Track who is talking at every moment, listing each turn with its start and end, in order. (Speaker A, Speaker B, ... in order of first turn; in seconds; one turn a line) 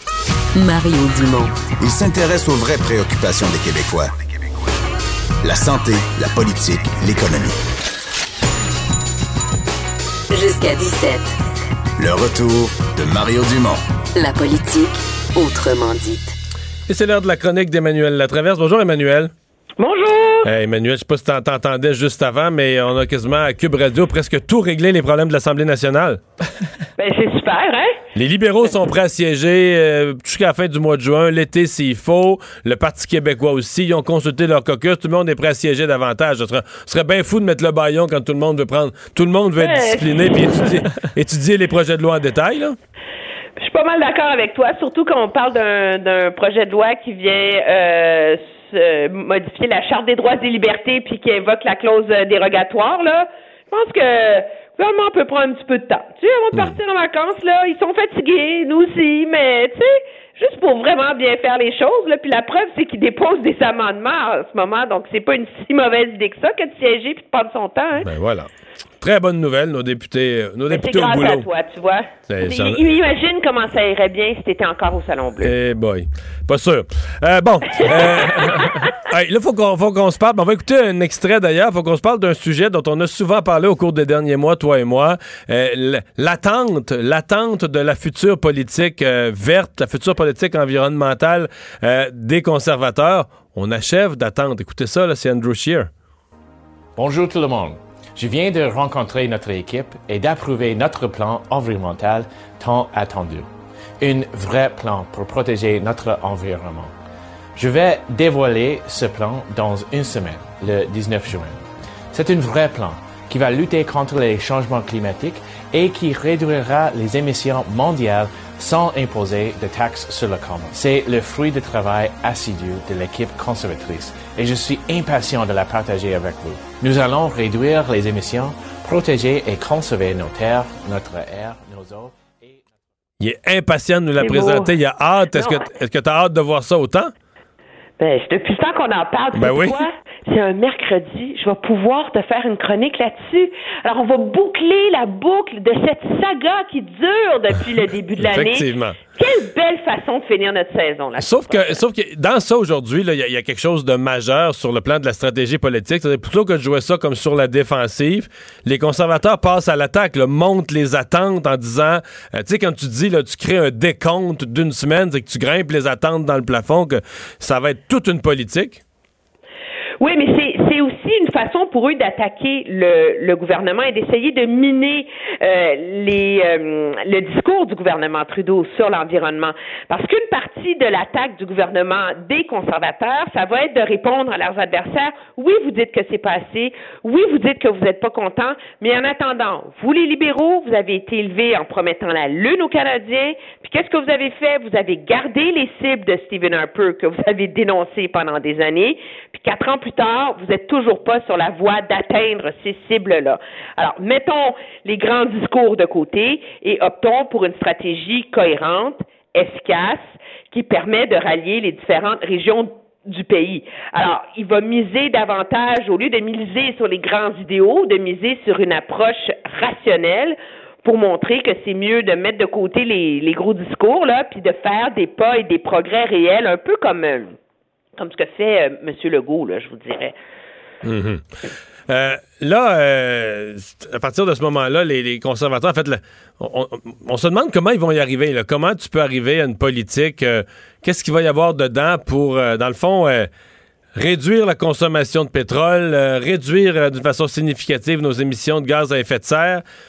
Speaker A: 0.6-1.7
Speaker B: 1.8-4.1
Speaker B: 5.4-7.6
Speaker A: 10.3-11.4
Speaker B: 12.0-13.8
Speaker A: 14.2-16.4
Speaker C: 16.9-19.3
Speaker D: 19.8-20.5
Speaker C: 20.4-26.2
Speaker D: 27.0-28.0
Speaker C: 28.1-42.8
Speaker D: 39.6-40.4
Speaker D: 43.6-68.1
Speaker C: 68.0-68.5
Speaker C: 69.0-71.5
Speaker D: 70.7-75.5
Speaker C: 72.3-72.8
Speaker C: 75.4-95.9
Speaker E: 97.0-103.5
Speaker E: 104.0-106.9
Speaker E: 107.6-111.6
Speaker E: 112.1-132.6
Speaker C: 133.2-137.1
Speaker D: 134.2-134.7
Speaker D: 135.3-135.7
Speaker D: 138.0-151.8
Speaker C: 139.3-139.8
Speaker C: 148.2-149.0
Speaker C: 151.2-168.8
Speaker D: 170.0-227.3
Speaker D: 228.0-230.2
Speaker C: 230.8-231.2
Speaker C: 231.9-243.3
Speaker C: 243.9-249.6